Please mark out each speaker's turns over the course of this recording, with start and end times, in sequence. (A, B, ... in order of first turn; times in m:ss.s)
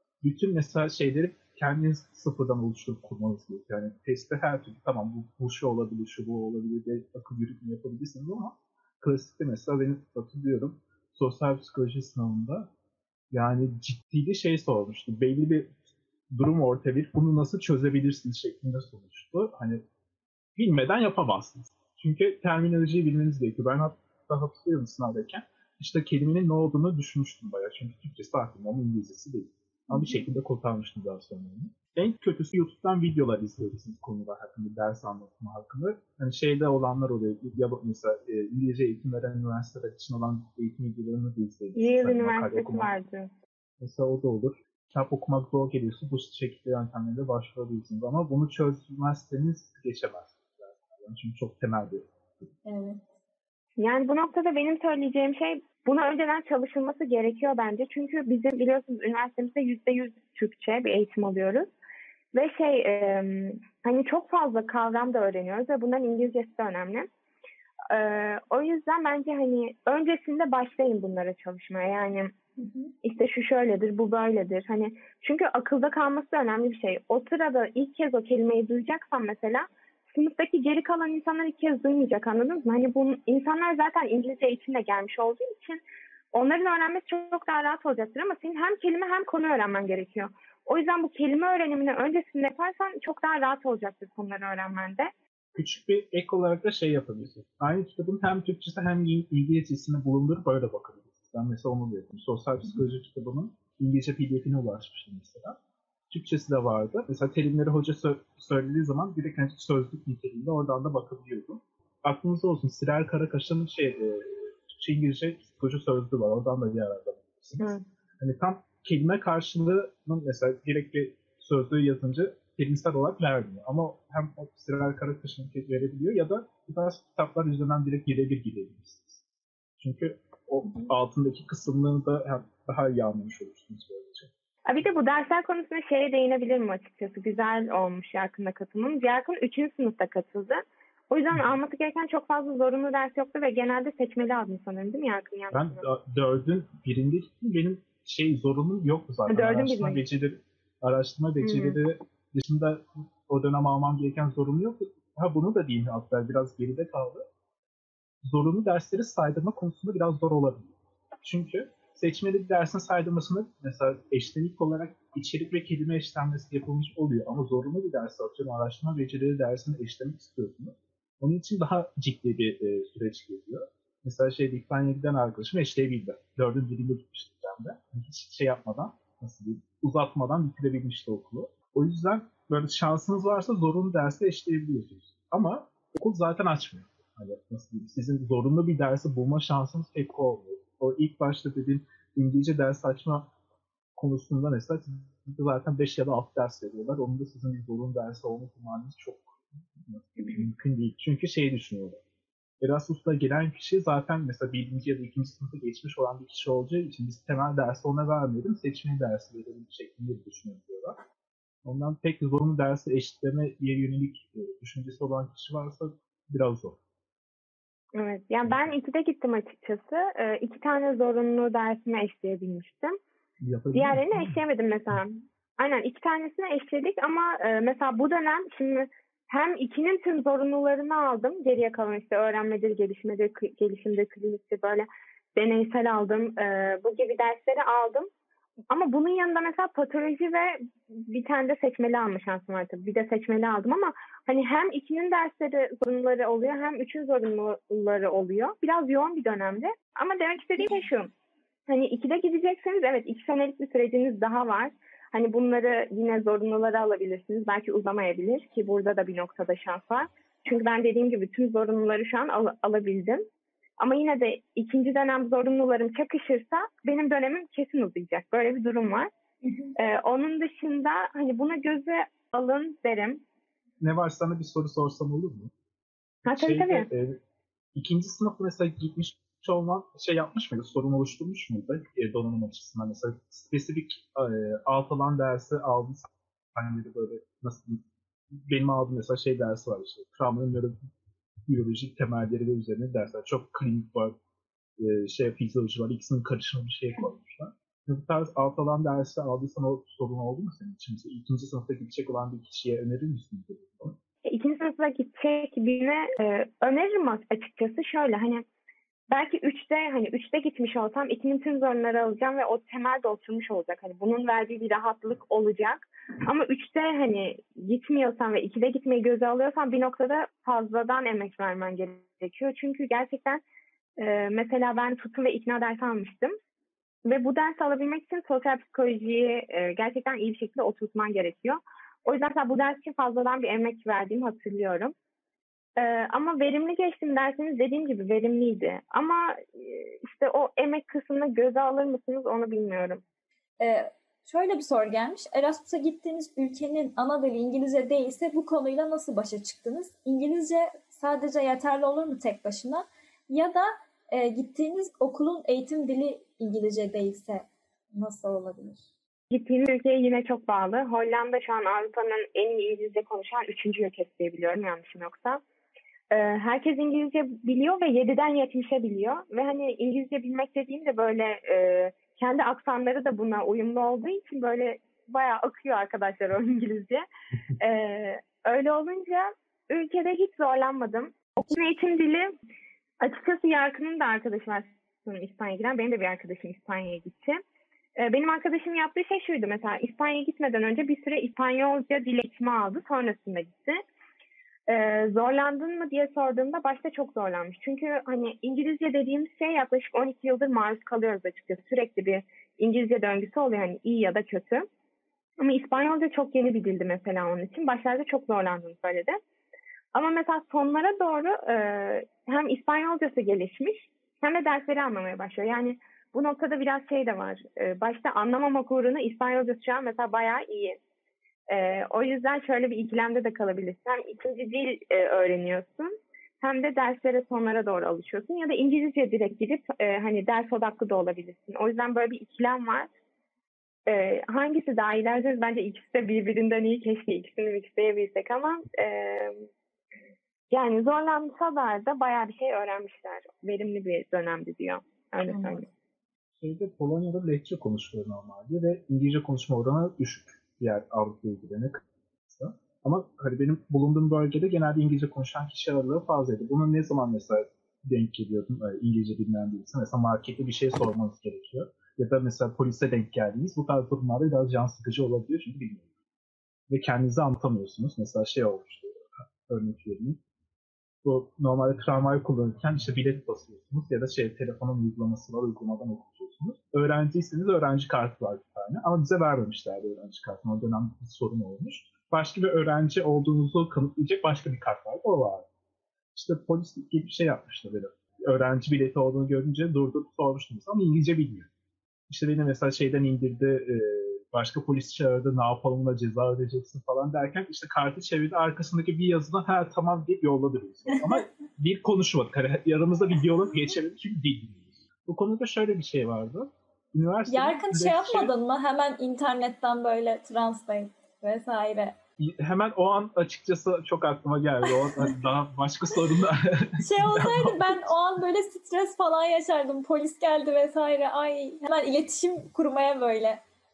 0:00.2-0:12.7 A
0:13.3-0:15.8 A
0:16.3-0:19.8 A
0:20.6-0:42.9 A
0:41.8-0:43.3 B
0:43.8-0:52.1 A
0:52.6-0:53.0 C
0:53.8-1:01.7 B
1:02.3-1:07.1 B
1:07.9-1:12.3 B
1:13.0-1:25.8 B
1:26.3-1:35.1 B
1:35.5-1:45.6 A
1:46.1-2:09.2 A
1:57.6-1:57.8 B
2:09.8-2:14.3 A
2:14.6-2:25.8 B
2:25.5-2:37.2 A
2:29.3-2:30.0 B
2:31.4-2:31.8 B
2:38.2-3:13.3 A
3:14.0-3:22.0 A
3:22.6-3:31.0 A
3:31.6-3:36.8 A
3:37.9-3:43.0 B
3:43.4-3:44.4 A
3:43.7-3:58.1 B
3:58.7-4:11.1 B
4:11.7-4:23.2 B
4:23.8-4:29.1 B
4:29.8-4:33.2 B
4:33.8-4:35.5 A
4:36.2-4:36.9 B
4:36.3-4:37.2 A
4:37.7-4:50.8 A
4:51.4-4:54.2 A
4:54.8-5:04.0 A
5:04.2-5:08.4 B
5:09.1-5:23.4 B
5:24.0-5:26.4 B
5:27.0-5:34.9 B
5:35.8-5:43.0 B
5:43.6-5:58.8 C
5:59.3-6:05.4 B
6:06.1-6:17.0 B
6:17.6-6:22.3 B
6:23.0-6:27.4 B
6:28.0-6:33.8 B
6:34.7-6:44.7 B
6:45.4-6:49.2 B
6:49.9-7:00.8 B
7:01.5-7:12.9 B
7:13.8-7:19.5 B
7:20.5-7:25.6 B
7:25.3-7:25.6 C
7:26.4-7:45.9 A
7:46.7-7:50.2 A
7:51.0-8:05.5 A
8:06.1-8:11.5 A
8:12.1-8:28.3 A
8:27.3-8:31.9 C
8:32.2-8:37.9 A
8:36.8-8:43.4 C